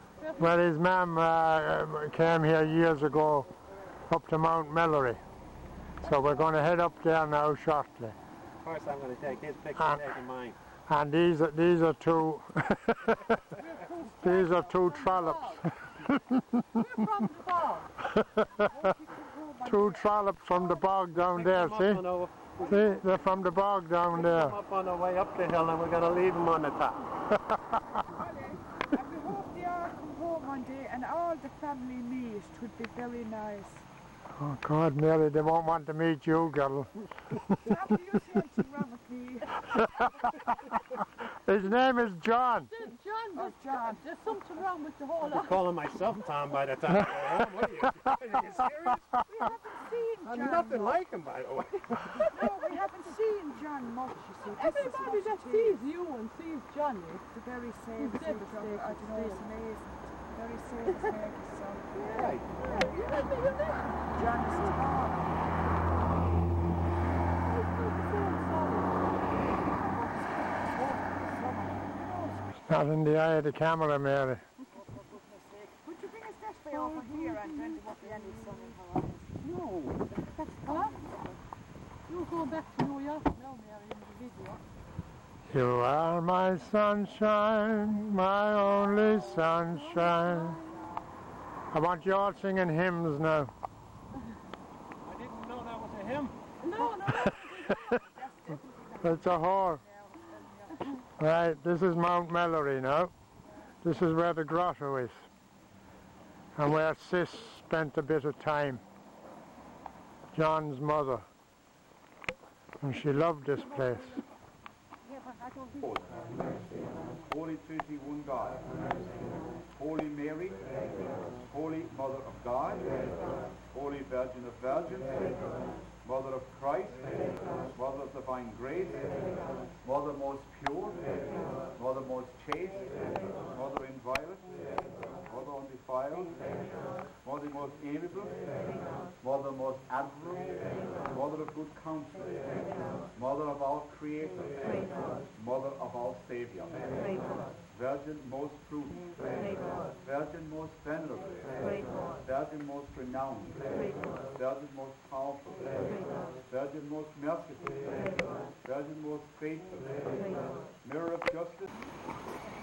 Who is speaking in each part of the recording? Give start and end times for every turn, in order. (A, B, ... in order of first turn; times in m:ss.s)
0:00.2-0:00.6 A
0:00.4-0:03.5 B
0:04.1-0:05.2 B
0:06.0-0:08.1 B
0:08.6-0:10.6 C
0:09.8-0:10.0 B
0:10.9-0:13.5 B
0:13.6-0:15.7 A
0:14.1-0:16.8 B
0:16.7-0:17.9 A
0:18.0-0:18.7 B
0:18.6-0:20.6 D
0:19.6-0:22.0 B
0:21.3-0:22.9 C
0:22.7-0:24.6 B
0:24.1-0:27.0 C
0:27.9-0:33.8 D
0:34.4-0:37.5 B
0:37.6-0:39.5 D
0:41.4-0:42.7 B
0:42.7-0:45.7 A
0:43.4-0:44.0 D
0:45.2-0:49.2 C
0:49.3-0:51.0 D
0:50.2-0:52.5 C
0:52.2-0:55.8 D
0:52.4-0:53.2 A
0:54.5-0:57.3 A
0:57.3-1:03.2 D
0:58.0-0:59.4 A
1:01.9-1:02.7 C
1:01.9-1:04.9 A
1:04.0-1:05.5 D
1:07.4-1:09.2 A
1:09.6-1:12.7 D
1:12.6-1:14.4 B
1:14.8-1:19.3 D
1:16.7-1:18.7 A
1:19.4-1:21.1 A
1:22.1-1:23.5 A
1:23.6-1:24.5 D
1:25.5-1:30.6 B
1:28.6-1:30.9 A
1:31.7-1:33.5 B
1:35.0-1:37.0 C
1:36.6-1:38.0 A
1:37.9-1:40.9 D
1:39.0-1:39.8 B
1:41.2-1:43.1 B
1:43.8-1:45.2 B
1:46.6-1:48.8 B
1:50.3-1:51.3 B
1:52.8-1:54.2 B
1:55.3-1:55.6 A
1:55.8-1:56.3 E
1:57.1-1:58.8 E
1:59.7-2:05.5 E
2:06.0-2:16.6 E
2:17.2-2:18.5 E
2:19.2-2:22.6 E
2:23.1-2:41.7 E